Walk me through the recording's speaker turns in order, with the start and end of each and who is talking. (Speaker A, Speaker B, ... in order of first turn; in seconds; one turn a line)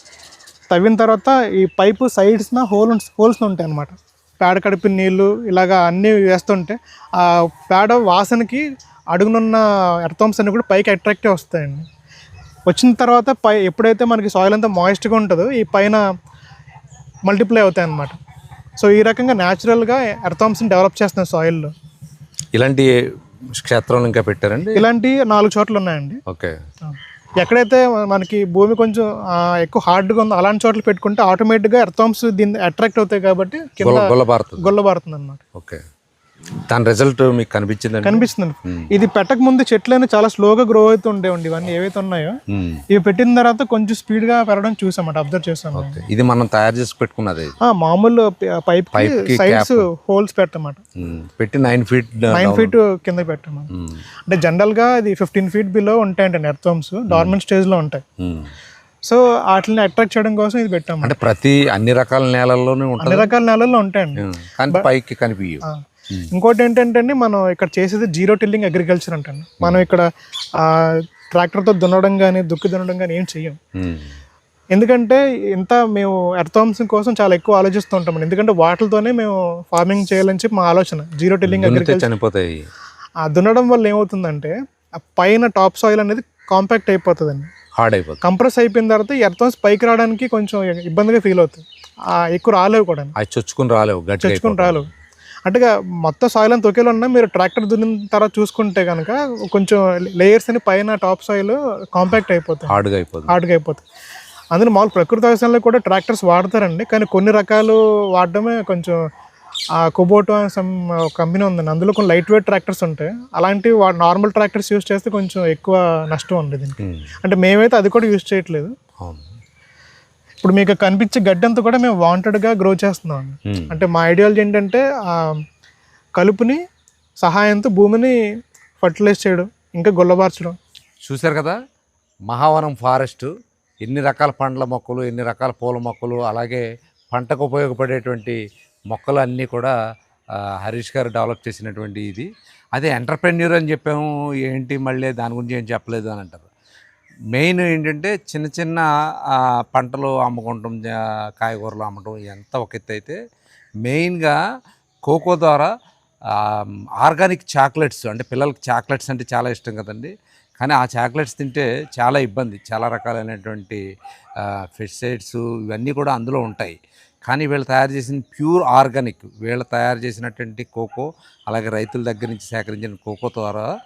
Speaker A: 0.7-8.6
Speaker A: 9.1-11.9
Speaker A: 12.7-16.0
Speaker A: 17.2-18.2
Speaker A: 18.8-21.7
Speaker B: 22.5-22.9
Speaker B: 23.5-24.9
Speaker A: 24.7-26.2
Speaker B: 26.3-26.6
Speaker A: 26.9-35.4
Speaker B: 33.8-34.7
Speaker B: 35.5-35.8
Speaker B: 36.6-38.9
Speaker A: 38.0-42.4
Speaker B: 42.5-42.8
Speaker A: 42.9-46.0
Speaker B: 45.8-47.5
Speaker A: 47.6-50.8
Speaker B: 48.9-49.8
Speaker B: 51.0-52.8
Speaker A: 52.3-53.7
Speaker B: 53.7-54.0
Speaker A: 54.3-58.0
Speaker B: 58.2-58.5
Speaker A: 59.0-61.1
Speaker B: 61.0-63.3
Speaker A: 63.0-64.8
Speaker B: 64.2-66.3
Speaker A: 66.3-70.0
Speaker A: 70.6-73.6
Speaker B: 73.8-74.1
Speaker A: 74.7-82.1
Speaker B: 81.5-82.7
Speaker A: 83.2-87.5
Speaker B: 87.8-88.2
Speaker A: 88.2-91.6
Speaker A: 92.2-93.1
Speaker B: 93.2-94.9
Speaker A: 94.2-94.9
Speaker A: 95.5-102.7
Speaker B: 102.7-103.3
Speaker A: 103.3-103.8
Speaker A: 104.5-109.0
Speaker A: 109.8-118.7
Speaker B: 116.8-117.1
Speaker B: 119.0-119.3
Speaker A: 120.4-125.4
Speaker B: 123.5-123.7
Speaker A: 126.2-126.6
Speaker A: 127.2-128.1
Speaker A: 128.8-130.6
Speaker B: 131.0-131.6
Speaker B: 132.3-133.3
Speaker B: 133.8-138.4
Speaker B: 138.9-139.7
Speaker B: 140.3-146.5
Speaker B: 147.3-153.2
Speaker B: 153.8-154.4
Speaker B: 155.0-155.7
Speaker B: 156.3-163.8
Speaker B: 164.4-173.7